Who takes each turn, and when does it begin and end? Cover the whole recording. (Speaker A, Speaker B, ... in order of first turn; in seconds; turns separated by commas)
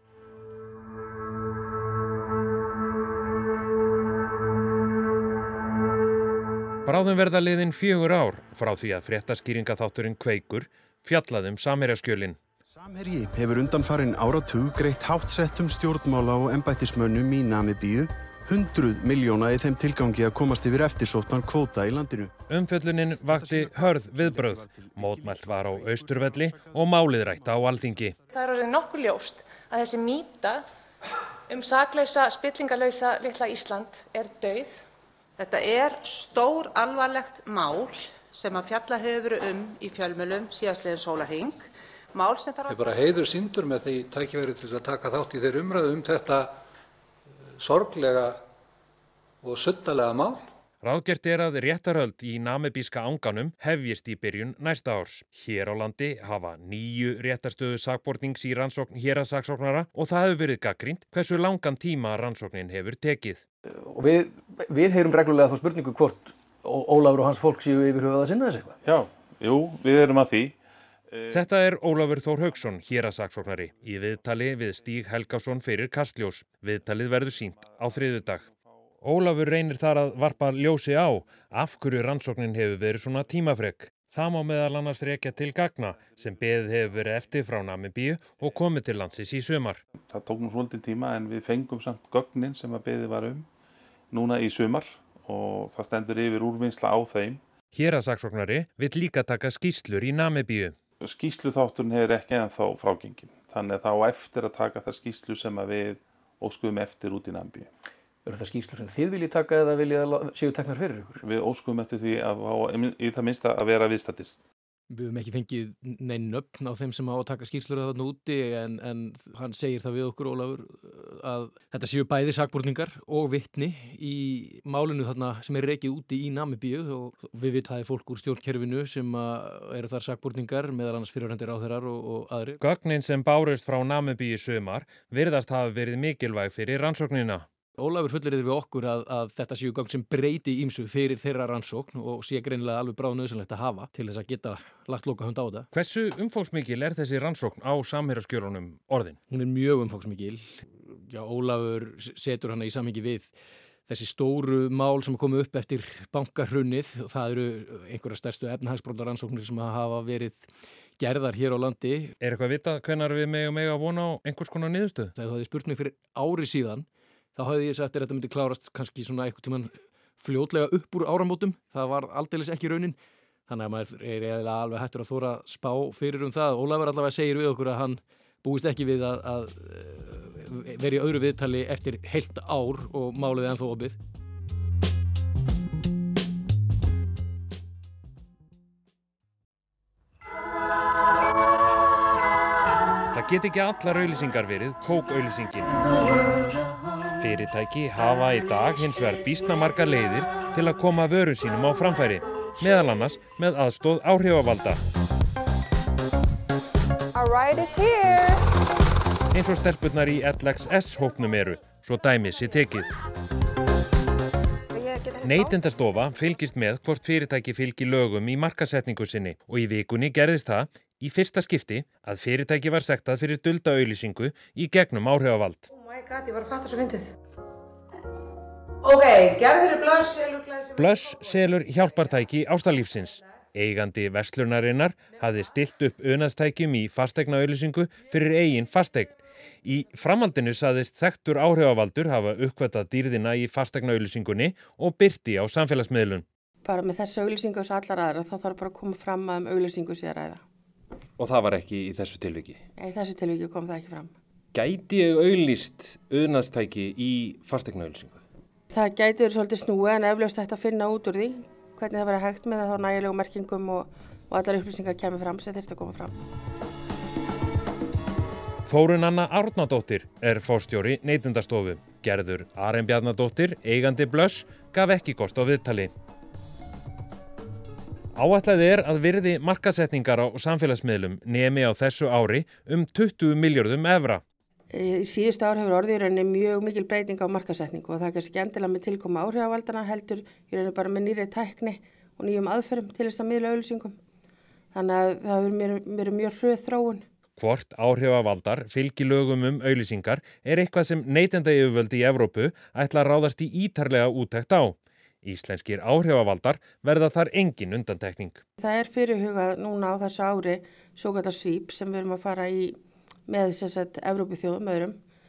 Speaker A: 6.9-12.4, Speaker B: 12.8-22.3, Speaker A: 22.5-28.2, Speaker B: 23.3-28.2, Speaker C: 28.3-30.6, Speaker C: 31.5-34.8, Speaker D: 35.4-43.0, Speaker E: 42.7-46.6, Speaker E: 47.6-48.4, Speaker E: 49.4-50.5, Speaker A: 50.8-63.4, Speaker F: 63.8-68.8, Speaker G: 68.8-70.6, Speaker G: 71.1-71.4, Speaker A: 71.3-78.5, Speaker A: 79.0-89.8, Speaker G: 90.1-93.5, Speaker G: 94.1-97.4, Speaker A: 97.7-100.7, Speaker G: 101.0-107.7, Speaker F: 108.3-111.2, Speaker G: 111.2-114.3, Speaker F: 114.9-132.6, Speaker A: 132.6-137.4, Speaker F: 137.8-145.7, Speaker A: 145.7-149.2, Speaker F: 149.3-153.3, Speaker F: 153.9-160.5, Speaker F: 161.0-162.1, Speaker A: 162.2-165.1, Speaker F: 165.2-173.0, Speaker F: 173.5-184.0, Speaker A: 193.1-195.7, Speaker A: 197.2-204.8, Speaker D: 207.2-208.4, Speaker A: 209.3-212.9, Speaker A: 215.2-225.6, Speaker H: 225.8-227.1, Speaker H: 228.8-230.7, Speaker A: 230.8-246.2, Speaker I: 246.6-250.4, Speaker A: 251.2-252.6, Speaker I: 252.8-254.1, Speaker A: 254.5-258.2, Speaker I: 258.7-266.2, Speaker A: 268.7-275.9, Speaker A: 278.2-284.2, Speaker I: 284.7-294.0, Speaker I: 294.7-297.0, Speaker A: 297.4-308.4, Speaker I: 308.6-312.8, Speaker I: 313.3-315.0